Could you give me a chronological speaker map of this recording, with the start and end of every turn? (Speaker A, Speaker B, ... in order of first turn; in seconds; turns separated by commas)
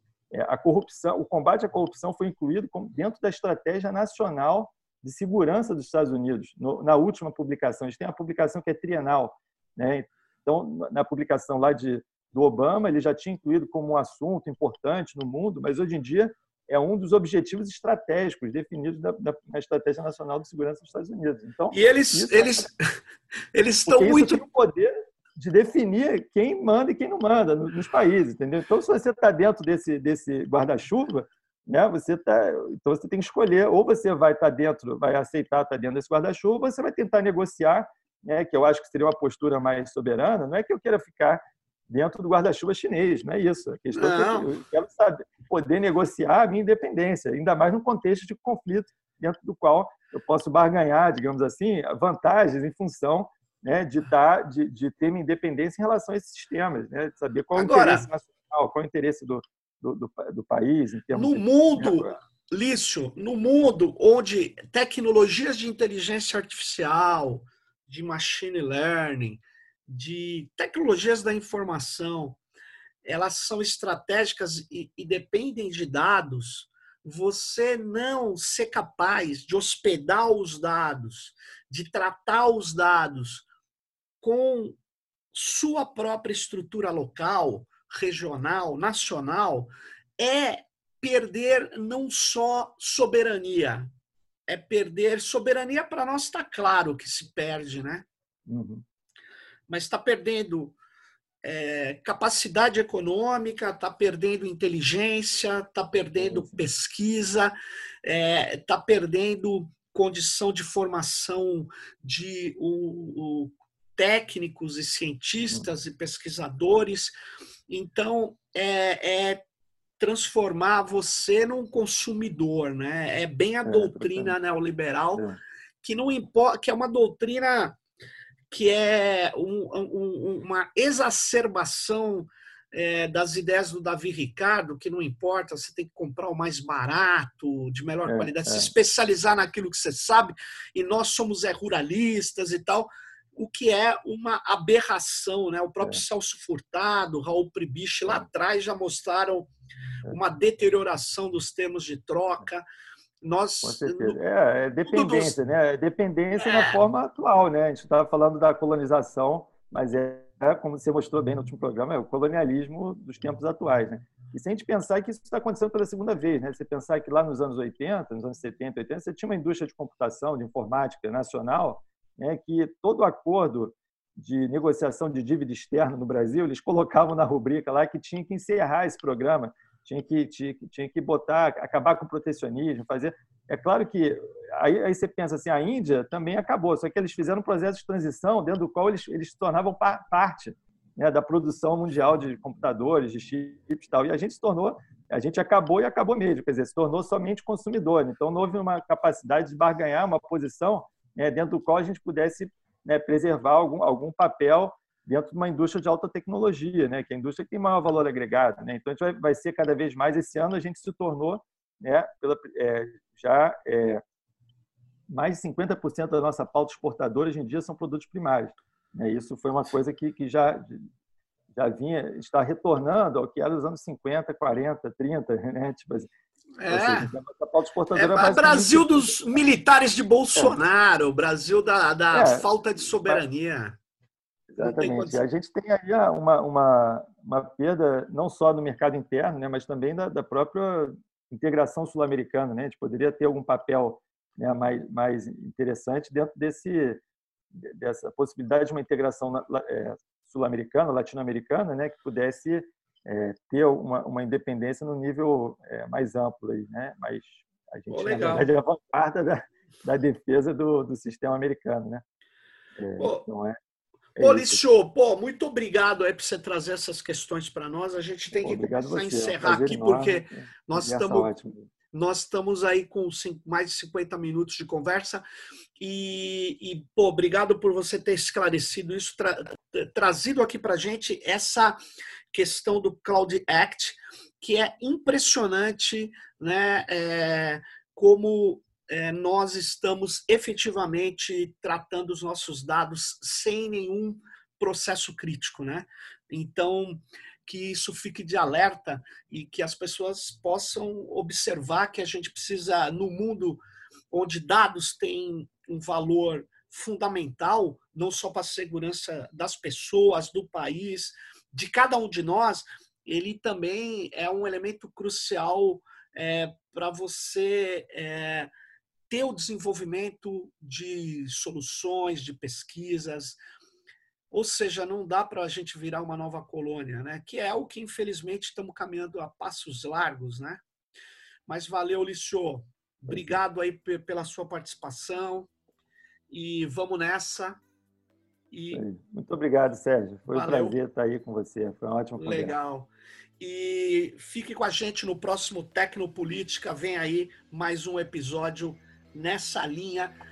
Speaker A: 0.3-22.7, Speaker B: 21.7-23.0, Speaker B: 23.5-24.4, Speaker A: 23.9-62.1, Speaker B: 43.9-44.5, Speaker B: 57.5-58.1, Speaker B: 61.1-72.4, Speaker B: 73.0-83.5, Speaker B: 84.2-84.8, Speaker B: 85.3-93.9, Speaker B: 94.5-98.1, Speaker A: 98.5-98.8, Speaker B: 99.7-100.8, Speaker B: 101.4-117.1, Speaker A: 106.2-106.6, Speaker B: 117.7-119.4, Speaker B: 120.0-125.3, Speaker A: 123.7-124.3, Speaker B: 125.8-127.8, Speaker B: 128.5-149.5, Speaker A: 138.1-138.7, Speaker B: 150.1-152.6, Speaker B: 153.2-154.2, Speaker A: 153.6-214.0, Speaker B: 154.9-155.4, Speaker B: 156.4-156.9, Speaker A: 215.1-220.8, Speaker A: 221.5-226.1, Speaker B: 226.6-227.1, Speaker A: 226.7-229.4, Speaker B: 227.9-233.8, Speaker A: 232.1-232.5, Speaker A: 234.6-247.0, Speaker B: 234.6-235.2, Speaker A: 247.5-262.0, Speaker B: 257.9-258.5, Speaker A: 262.8-263.6, Speaker B: 263.0-263.3, Speaker A: 264.2-264.6, Speaker B: 264.2-271.3, Speaker A: 268.4-271.7, Speaker B: 271.9-275.2, Speaker B: 275.8-281.8, Speaker B: 282.3-318.5, Speaker B: 319.1-323.4, Speaker B: 324.3-330.6, Speaker B: 331.5-335.5, Speaker A: 333.1-333.4, Speaker B: 336.3-337.6, Speaker B: 338.5-338.8, Speaker A: 338.7-342.6, Speaker B: 340.3-340.8, Speaker B: 342.2-350.2